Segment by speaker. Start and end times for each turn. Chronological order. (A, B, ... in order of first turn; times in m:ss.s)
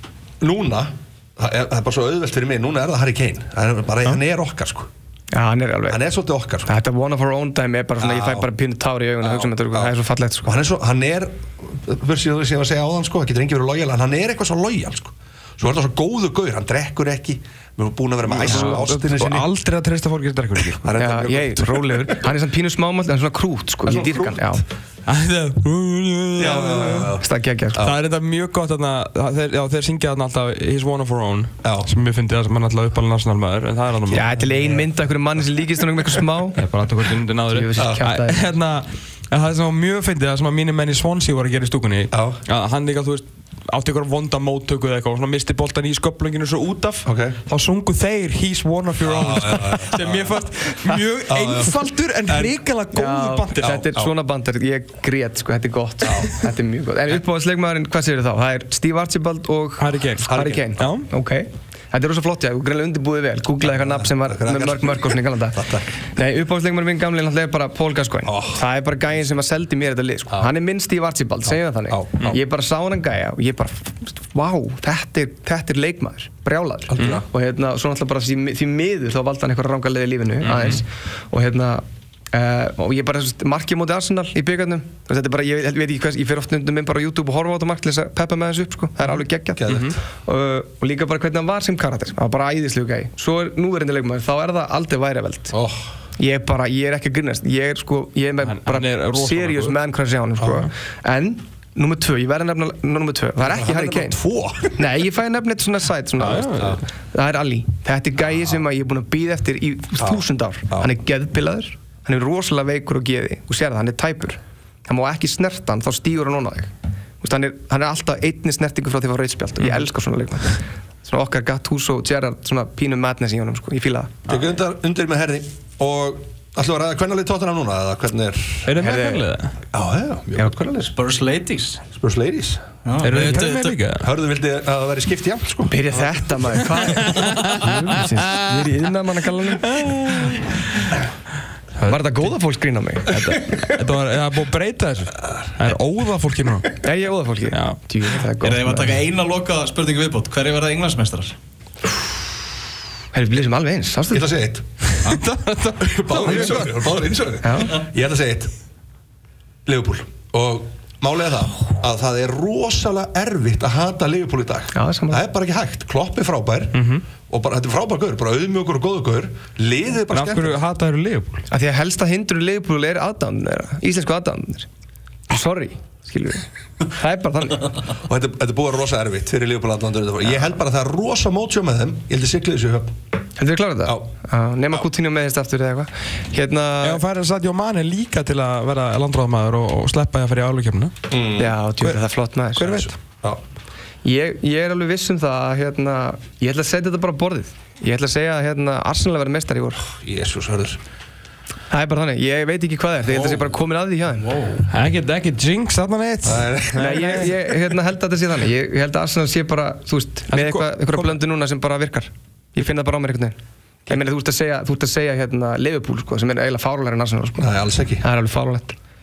0:00.4-0:04.9 A
0:05.3-0:06.0 B
0:05.9-0:06.7 A
0:06.7-0:10.6 B
0:08.0-0:08.5 A
0:09.2-0:09.9 A
0:10.4-0:19.5 A
0:18.3-0:21.0 C
0:18.5-0:18.8 B
0:20.8-0:22.2 A
0:21.0-0:24.6 B
0:23.8-0:24.6 A
0:25.1-0:27.1 C
0:26.4-0:28.0 A
0:27.2-0:27.8 B
0:27.8-0:34.4 C
0:31.6-0:31.9 A
0:34.1-0:36.6 B
0:34.6-0:34.8 A
0:36.6-0:53.8 C
0:37.5-0:38.4 B
0:37.8-0:38.0 A
0:42.1-0:42.4 A
0:47.1-0:47.4 A
0:49.0-0:50.4 A
0:50.7-0:51.0 B
0:51.3-0:52.6 A
0:52.9-1:35.6 B
0:53.6-0:54.1 A
0:56.0-0:56.4 A
0:59.8-1:01.1 C
1:00.2-1:00.7 A
1:03.7-1:05.9 A
1:08.2-1:08.6 A
1:11.9-1:12.4 A
1:16.9-1:17.2 A
1:17.0-1:17.2 C
1:20.4-1:20.8 C
1:29.6-1:30.0 A
1:29.7-1:29.9 C
1:35.5-1:35.9 A
1:36.2-1:44.2 B
1:38.4-1:39.8 C
1:40.4-1:40.7 A
1:43.4-1:44.9 A
1:44.8-1:56.7 B
1:46.2-1:46.8 C
1:50.0-1:50.9 A
1:57.2-2:04.4 B
2:04.3-2:08.8 A
2:08.7-2:09.5 C
2:08.8-2:09.3 B
2:09.7-2:10.9 A
2:10.9-2:11.8 D
2:11.9-2:12.6 A
2:12.8-2:13.8 D
2:13.0-2:14.1 C
2:14.0-2:16.4 A
2:15.7-2:19.9 B
2:16.8-2:18.7 C
2:19.6-2:20.9 C
2:21.8-2:22.3 C
2:21.8-2:23.8 B
2:23.1-2:26.8 C
2:26.8-2:29.0 B
2:27.5-2:27.8 C
2:28.4-2:31.4 D
2:33.1-2:34.3 B
2:34.1-2:34.9 A
2:35.0-2:36.8 C
2:36.0-2:38.5 A
2:37.4-2:37.8 B
2:39.7-2:50.6 A
2:44.7-2:45.2 B
2:46.8-2:47.0 C
2:50.1-2:51.4 C
2:51.5-2:54.7 B
2:55.3-2:57.8 B
2:58.0-3:02.9 A
3:03.4-3:07.0 B
3:06.8-3:10.9 C
3:11.1-3:11.6 A
3:11.4-3:12.8 B
3:12.6-3:12.9 C
3:12.6-3:13.4 A
3:14.0-3:19.8 B
3:19.9-3:20.8 A
3:21.7-3:24.3 B
3:23.1-3:23.5 A
3:24.2-3:24.7 A
3:24.7-3:27.3 C
3:26.2-3:27.3 A
3:26.7-3:38.8 B
3:30.3-3:31.2 C
3:37.4-3:38.0 A